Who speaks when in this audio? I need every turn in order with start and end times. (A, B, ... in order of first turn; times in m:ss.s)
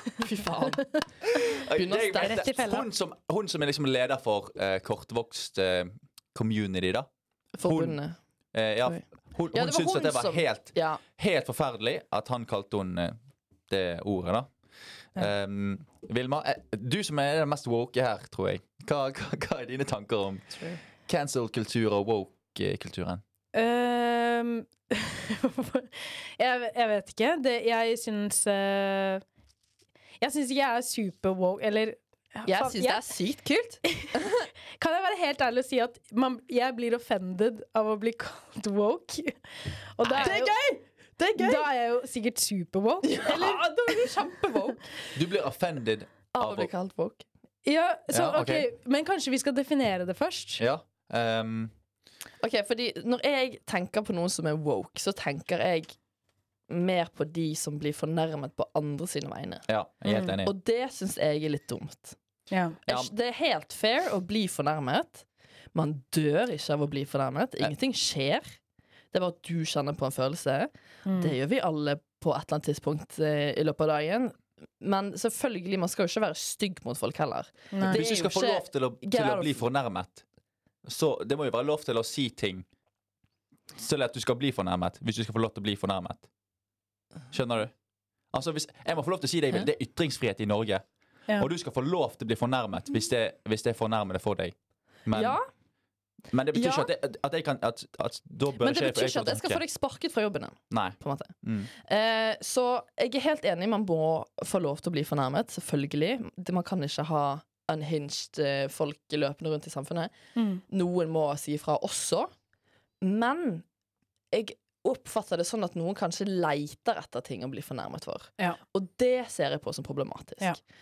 0:00.2-0:00.9 A
0:01.3-0:07.1 B
0:01.7-0:02.5 A
0:02.2-0:02.8 C
0:07.6-0:08.2 A
0:07.6-0:08.0 B
0:08.5-0:13.2 B
0:08.8-0:11.0 A
0:13.7-0:14.5 B
0:15.2-0:23.2 B
0:23.5-0:29.2 C
0:30.2-0:33.1 C
0:32.5-0:34.4 A
0:33.9-0:40.8 C
0:40.0-0:41.6 A
0:41.4-0:44.2 C
0:43.0-0:44.8 A
0:45.2-0:46.7 B
0:46.3-0:47.2 A
0:47.6-0:50.6 C
0:48.1-0:48.7 B
0:50.6-0:51.7 B
0:52.4-0:56.0 A
0:56.7-0:59.7 A
0:59.7-1:00.5 B
1:00.1-1:00.3 C
1:00.4-1:02.2 A
1:02.5-1:02.8 C
1:02.8-1:08.6 A
1:09.1-1:19.6 A
1:11.1-1:11.3 C
1:17.7-1:18.0 C
1:17.8-1:20.2 B
1:20.8-1:22.7 B
1:23.8-1:26.3 B
1:27.3-1:27.7 B
1:28.3-1:30.8 B
1:31.4-1:35.4 B
1:35.1-1:35.4 A
1:36.3-1:39.6 B
1:36.5-1:36.9 A
1:38.6-1:50.1 A
1:40.7-1:41.7 B
1:50.4-1:50.6 C
1:50.7-1:52.3 A
1:53.0-1:53.6 A
1:54.3-2:00.6 A